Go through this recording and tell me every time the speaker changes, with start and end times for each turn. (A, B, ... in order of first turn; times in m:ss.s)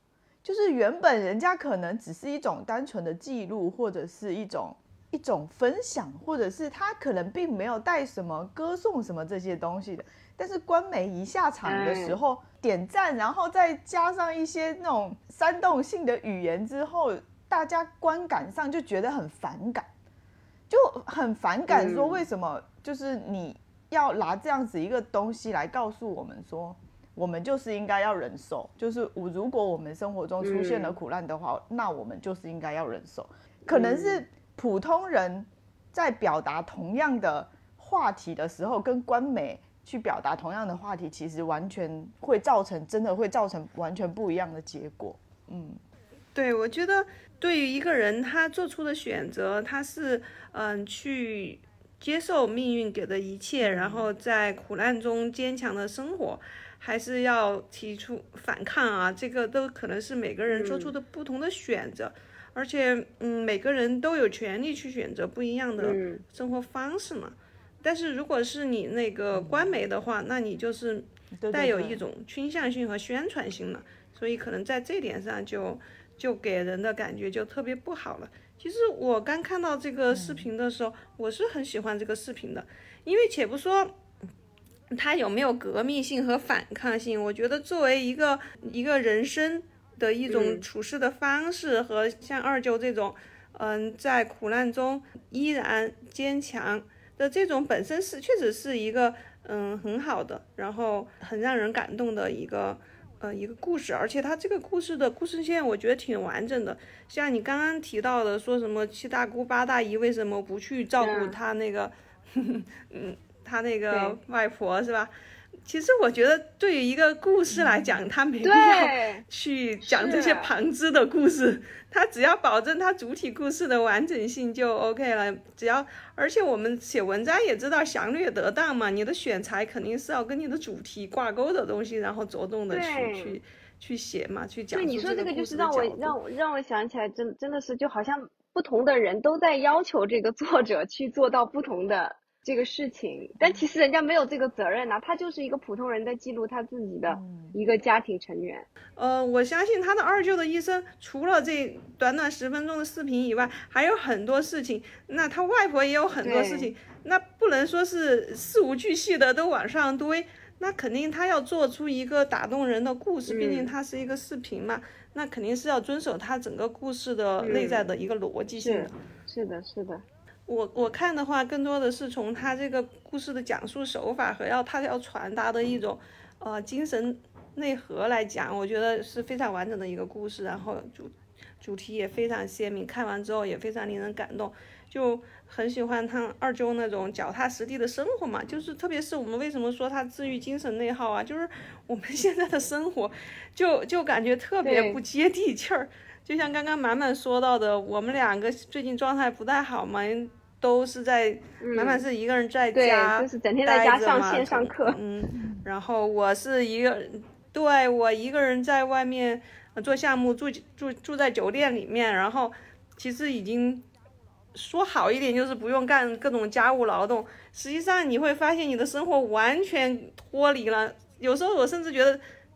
0:00.4-0:19.9 A
0:11.6-0:12.2 B
0:20.7-0:45.8 A
0:21.7-0:22.3 B
0:30.4-0:31.0 B
0:33.7-0:34.2 B
0:46.4-1:24.0 C
0:53.6-0:54.1 A
1:00.5-1:00.9 B
1:05.8-1:06.2 B
1:09.3-1:09.8 A
1:11.4-1:12.0 A
1:20.1-1:20.5 A
1:24.9-1:55.1 C
1:30.3-1:30.7 B
1:51.0-1:51.4 B
1:53.9-1:54.2 B
1:55.6-2:16.2 C
1:57.5-1:58.1 A
1:58.4-1:59.2 B
1:59.8-2:00.5 B
2:12.7-2:13.4 B
2:14.7-2:28.7 B
2:27.1-2:27.6 A
2:29.0-2:49.0 C
2:36.2-2:36.7 B
2:43.3-2:43.7 B
2:47.4-2:47.9 B
2:48.6-2:50.0 B
2:50.5-3:33.8 C
3:14.6-3:15.0 B
3:21.6-3:22.1 B
3:22.7-3:25.0 B
3:25.4-3:25.6 A
3:34.6-3:42.2 C